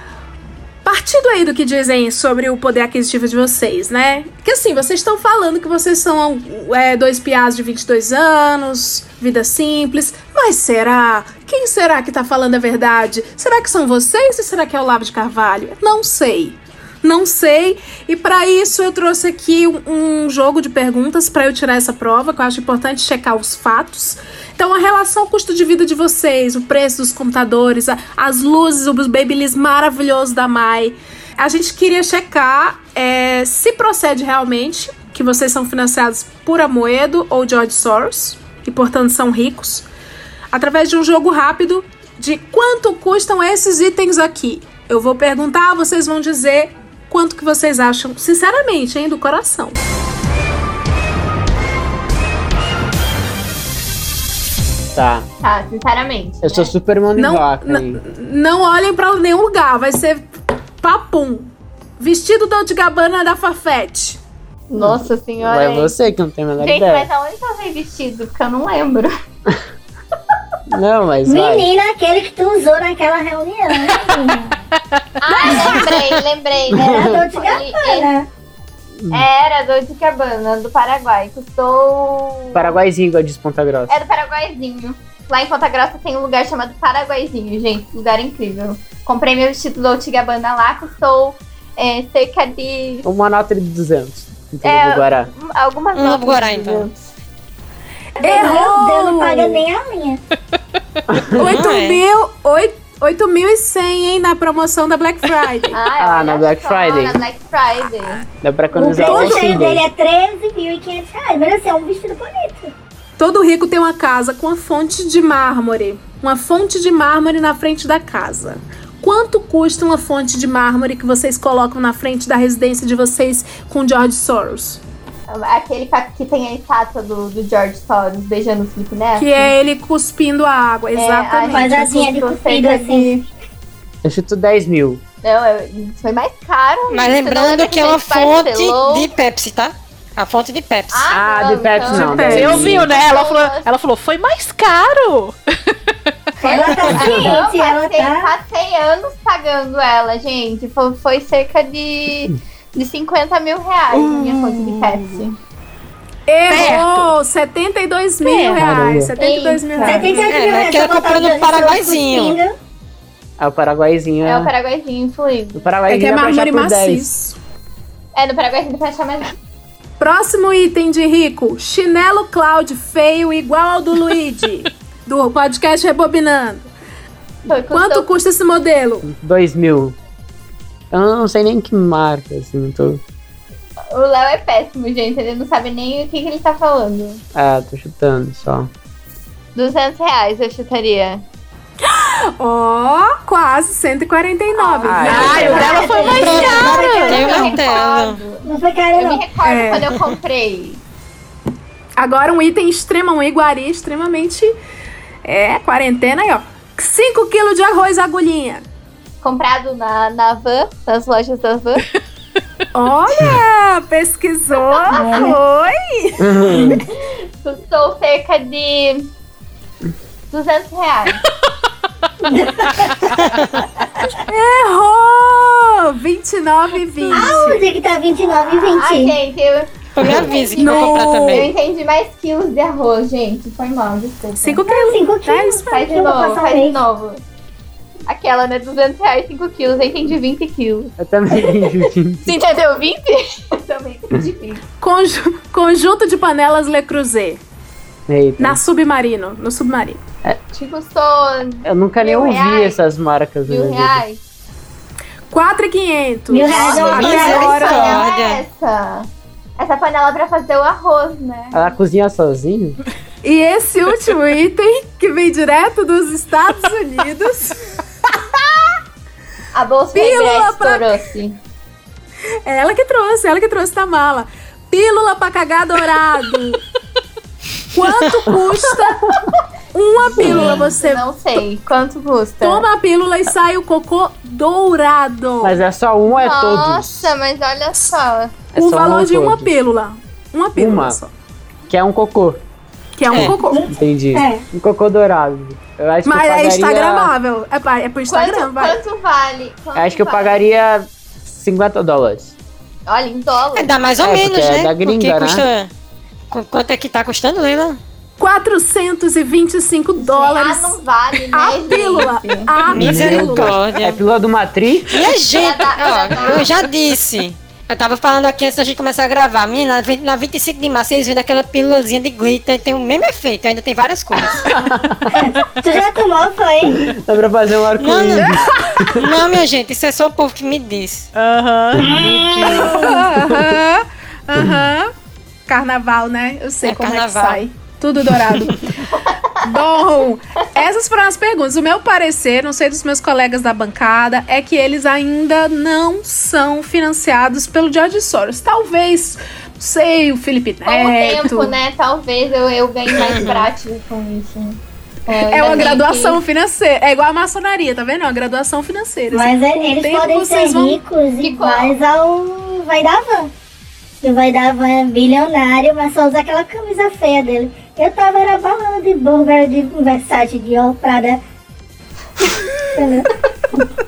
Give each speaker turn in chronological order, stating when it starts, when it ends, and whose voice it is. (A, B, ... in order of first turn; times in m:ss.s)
0:00.8-0:39.9 A
0:40.5-0:49.8 A
0:55.0-0:55.3 B
0:55.4-0:56.7 C
0:56.4-0:58.0 B
0:57.2-1:00.3 A
1:00.8-1:04.2 A
1:04.7-1:06.0 C
1:04.8-1:07.1 B
1:06.6-1:09.1 C
1:10.7-1:11.7 B
1:11.3-1:14.6 D
1:15.2-1:18.1 C
1:15.3-1:15.8 A
1:16.7-1:17.2 B
1:16.7-1:18.3 D
1:19.1-1:22.8 C
1:22.6-1:24.0 B
1:23.9-1:33.1 C
1:33.0-1:35.3 B
1:34.6-1:37.1 C
1:35.9-1:36.9 E
1:38.2-1:39.6 A
1:38.2-1:38.6 C
1:38.2-1:40.2 D
1:41.1-1:41.6 B
1:41.4-1:45.8 A
1:41.4-1:42.0 E
1:45.7-1:48.3 C
1:46.0-1:47.2 B
1:48.3-1:49.8 B
1:48.7-1:52.7 D
1:49.0-1:49.6 A
1:53.2-2:04.8 A
2:05.3-2:09.5 C
2:09.2-2:11.9 A
2:10.9-2:13.2 C
2:11.5-2:13.1 D
2:14.0-2:15.0 B
2:15.2-2:19.1 C
2:16.9-2:21.1 E
2:20.9-2:23.7 C
2:21.1-2:22.9 B
2:21.9-2:22.6 A
2:22.2-2:25.8 F
2:26.4-2:28.3 D
2:26.4-2:35.4 C
2:27.0-2:27.2 B
2:34.0-2:34.9 B
2:36.3-2:40.3 A
2:36.5-2:37.0 E
2:38.2-2:38.6 F
2:38.6-2:39.2 B
2:39.2-2:40.2 C
2:39.8-2:42.6 D
2:40.3-2:42.4 E
2:43.4-2:44.5 B
2:44.2-2:45.7 C
2:45.6-2:47.1 B
2:45.9-2:47.4 A
2:48.2-2:49.4 C
2:50.0-2:56.7 A
2:57.5-2:58.1 C
2:57.7-2:59.1 A
2:59.0-3:00.0 B
3:00.9-3:03.0 B
3:03.9-3:07.2 C
3:07.4-3:08.7 B
3:09.6-3:11.2 C
3:11.8-3:17.1 A
3:14.6-3:20.8 C
3:14.8-3:15.7 B
3:15.1-3:17.2 F
3:15.2-3:17.4 D
3:16.0-3:18.2 E
3:18.4-3:19.2 D
3:19.4-3:19.9 A
3:22.0-3:24.5 A
3:25.2-3:28.6 A
3:29.2-3:31.8 C
3:32.7-3:36.8 A
3:34.6-3:35.3 C
3:35.0-3:35.3 D
3:36.2-3:36.8 B
3:36.8-3:39.1 C
3:40.3-3:41.2 C
3:42.3-3:42.9 D
3:44.3-3:47.6 A
3:47.1-3:49.2 D
3:48.8-3:54.6 C
3:50.0-3:51.5 E
3:50.6-3:51.5 A
3:54.4-3:56.6 A
3:54.6-3:56.8 D
3:55.7-3:57.2 C
3:58.1-4:01.7 C
4:01.0-4:02.3 B
4:02.3-4:04.6 C
4:04.8-4:07.4 A
4:08.1-4:08.6 B
4:08.4-4:10.0 A
4:10.6-4:12.8 C
4:11.6-4:14.0 B
4:13.5-4:14.2 C
4:15.3-4:18.0 A
4:16.3-4:17.6 D
4:16.4-4:21.8 C
4:16.5-4:18.4 E
4:21.5-4:22.8 B
4:23.2-4:27.6 A
4:29.5-4:31.4 C
4:29.9-4:30.9 A
4:32.4-4:36.6 A
4:37.7-4:39.1 A
4:39.7-4:41.0 A
4:40.0-4:42.7 C
4:40.2-4:40.6 B
4:42.4-4:45.6 A
4:45.4-4:47.1 B
4:46.1-4:48.4 C
4:48.5-4:49.6 B
4:48.6-4:51.1 A
4:50.6-4:51.0 B
4:51.7-4:52.4 B
4:53.0-4:53.7 A
4:53.1-4:57.1 B
4:53.5-4:54.4 D
4:56.0-4:58.8 A
4:58.1-5:00.6 C
4:59.8-5:02.4 B
5:02.9-5:03.7 C
5:03.5-5:05.7 E
5:04.0-5:05.5 B
5:06.3-5:07.8 E
5:08.2-5:10.8 A
5:10.0-5:12.5 C
5:11.3-5:13.5 A
5:12.7-5:14.0 E
5:12.8-5:15.0 B
5:14.9-5:24.4 E
5:15.1-5:16.5 C
5:24.5-5:25.2 B
5:25.1-5:26.8 D
5:26.7-5:29.1 B
5:27.8-5:28.3 E
5:28.2-5:28.8 A
5:29.0-5:31.1 E
5:31.2-5:32.8 F
5:31.8-5:32.8 D
5:31.8-5:32.8 B
5:32.7-5:34.9 A
5:33.3-5:33.6 B
5:35.5-5:38.7 A
5:36.6-5:37.4 E
5:39.4-5:51.6 A
5:50.7-5:56.2 C
5:52.9-5:53.4 E
5:55.2-6:00.8 A
5:59.1-6:03.3 D
6:01.2-6:01.8 C
6:04.0-6:11.2 D
6:12.7-6:13.1 D